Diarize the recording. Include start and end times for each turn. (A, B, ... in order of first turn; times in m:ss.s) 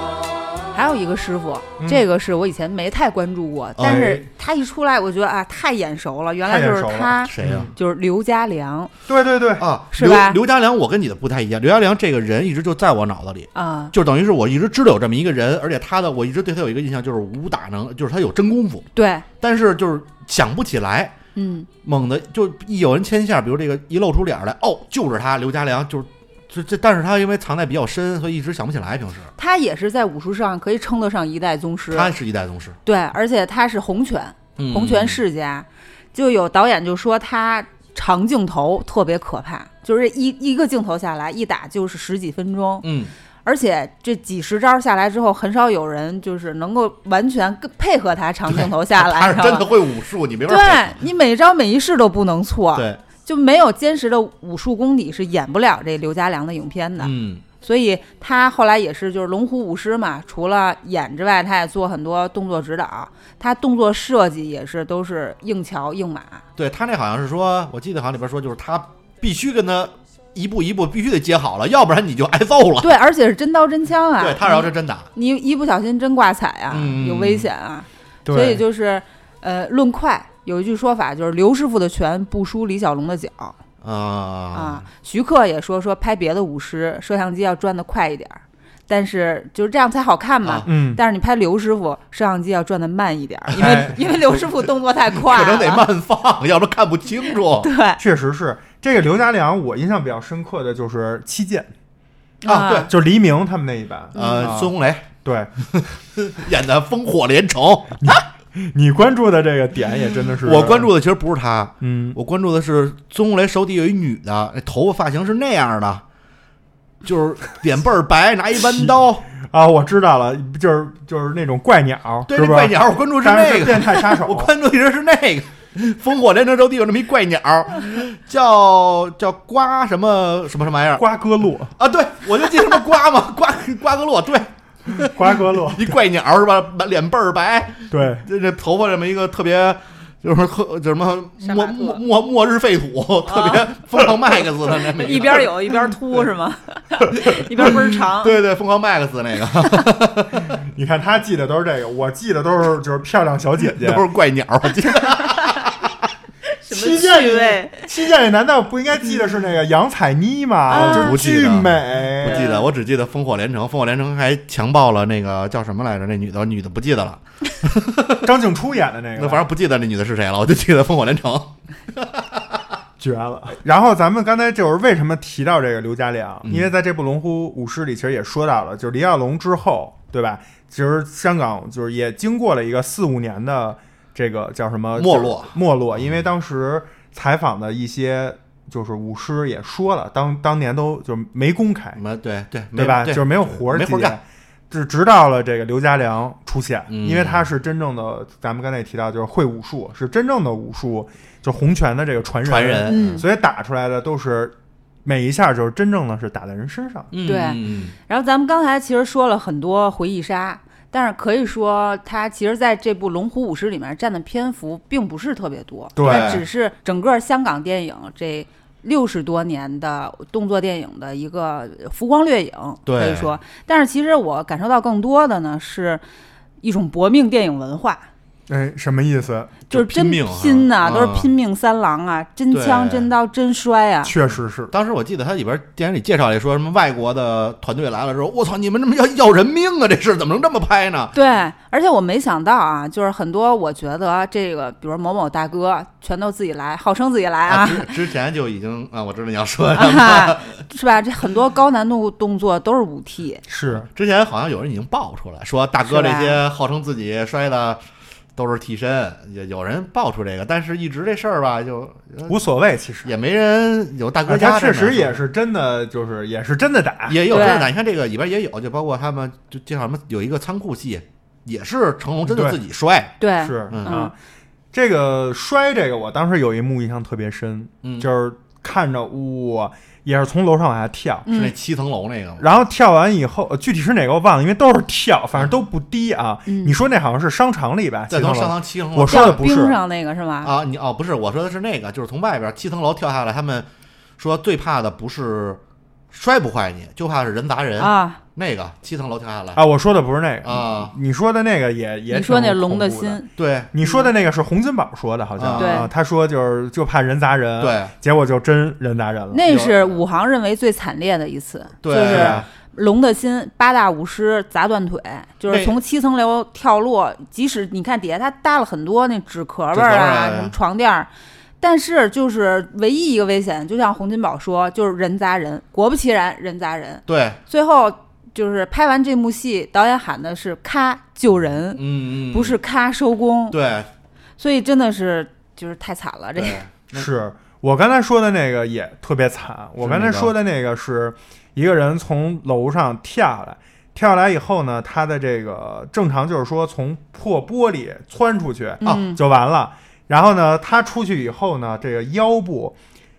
0:00.7-0:08.9 A
0:01.8-0:02.0 B
0:03.8-0:04.1 C
0:03.8-0:04.2 B
0:06.4-0:07.7 B
0:07.3-0:07.7 C
0:09.1-0:09.6 B
0:09.6-0:18.9 C
0:09.9-0:10.4 A
0:13.6-0:13.9 A
0:18.9-0:19.2 A
0:19.4-0:21.1 C
0:21.4-0:21.7 A
0:21.8-0:29.3 C
0:29.4-0:32.1 A
0:31.9-0:32.8 C
0:32.8-0:42.9 A
0:34.6-0:35.2 C
0:42.8-0:43.1 C
0:43.4-0:49.7 A
0:48.5-0:51.0 C
0:50.5-1:06.4 A
0:52.8-0:53.0 C
0:57.0-0:57.4 C
1:06.6-1:13.0 C
1:12.8-1:23.6 A
1:14.2-1:15.1 C
1:16.7-1:17.5 C
1:18.2-1:18.6 B
1:23.8-1:24.8 C
1:24.5-1:35.9 A
1:30.6-1:31.0 B
1:33.5-1:34.5 C
1:33.6-1:34.0 B
1:35.1-1:37.7 C
1:37.6-1:38.0 A
1:38.0-1:41.7 B
1:42.4-1:42.9 A
1:42.4-1:42.9 C
1:42.9-1:45.5 B
1:44.1-1:44.5 A
1:44.1-1:45.1 C
1:45.7-1:48.0 C
1:48.0-1:50.9 B
1:50.4-1:56.0 C
1:51.8-1:52.2 B
1:57.0-1:59.3 C
1:58.6-2:04.5 B
2:02.3-2:11.0 C
2:11.0-2:11.7 B
2:11.8-2:25.9 C
2:15.0-2:16.0 B
2:17.9-2:18.3 B
2:21.4-2:22.0 A
2:23.2-2:23.6 A
2:25.0-2:28.4 A
2:27.2-2:30.5 C
2:30.4-2:34.0 B
2:33.7-2:36.1 C
2:36.6-2:37.9 A
2:36.7-2:42.5 B
2:40.7-2:41.1 A
2:40.7-2:48.3 C
2:42.3-2:42.7 A
2:48.2-2:49.5 B
2:49.2-2:52.6 C
2:53.0-3:12.0 B
2:56.5-2:56.7 C
3:05.0-3:06.2 C
3:12.0-3:14.2 C
3:12.7-3:27.1 B
3:16.9-3:17.5 C
3:22.4-3:23.2 C
3:22.9-3:23.2 A
3:27.1-3:27.9 C
3:27.2-3:46.0 A
3:36.0-3:36.4 B
3:36.0-3:36.4 C
3:42.8-3:43.4 C
3:46.6-3:48.1 A
3:48.5-3:49.6 B
3:49.7-3:51.3 C
3:49.7-3:54.1 A
3:52.5-3:53.1 C
3:54.0-3:54.7 B
3:54.7-4:01.2 C
4:01.1-4:07.9 A
4:07.5-4:10.6 C
4:09.8-4:13.4 A
4:13.5-4:13.9 B
4:13.7-4:17.8 C
4:15.8-4:16.4 A
4:18.4-4:22.4 C
4:22.3-4:23.1 B
4:23.0-4:25.1 C
4:24.2-4:27.6 B
4:27.1-4:33.2 C
4:27.3-4:27.6 A
4:32.2-4:32.6 B
4:33.2-4:34.1 A
4:33.4-4:34.1 B
4:33.7-4:34.0 C
4:34.7-4:41.4 B
4:37.8-4:38.1 C
4:41.2-4:41.5 A
4:41.3-4:42.5 C
4:42.4-4:49.8 B
4:46.5-4:46.7 A
4:48.1-4:49.4 C
4:49.1-4:50.5 A
4:50.4-4:53.7 C
4:54.2-4:55.6 C
4:56.1-4:59.6 C
4:57.8-4:58.2 A
4:59.6-5:03.2 B
5:00.4-5:00.9 C
5:02.1-5:03.3 A
5:03.4-5:03.7 C
5:03.7-5:09.4 B
5:03.8-5:04.1 A
5:05.4-5:05.9 C
5:05.6-5:05.9 A
5:07.6-5:07.9 C
5:09.3-5:21.1 A
5:09.5-5:10.0 C
5:11.8-5:12.5 C
5:12.0-5:12.5 B
5:15.5-5:15.8 C
5:19.7-5:20.5 C
5:21.6-5:33.6 A
5:27.1-5:27.4 C
5:31.8-5:32.6 C
5:33.5-5:33.9 C
5:34.4-5:36.6 A
5:36.4-5:37.1 C
5:36.9-5:52.8 B
5:39.8-5:40.3 C
5:48.8-5:49.2 A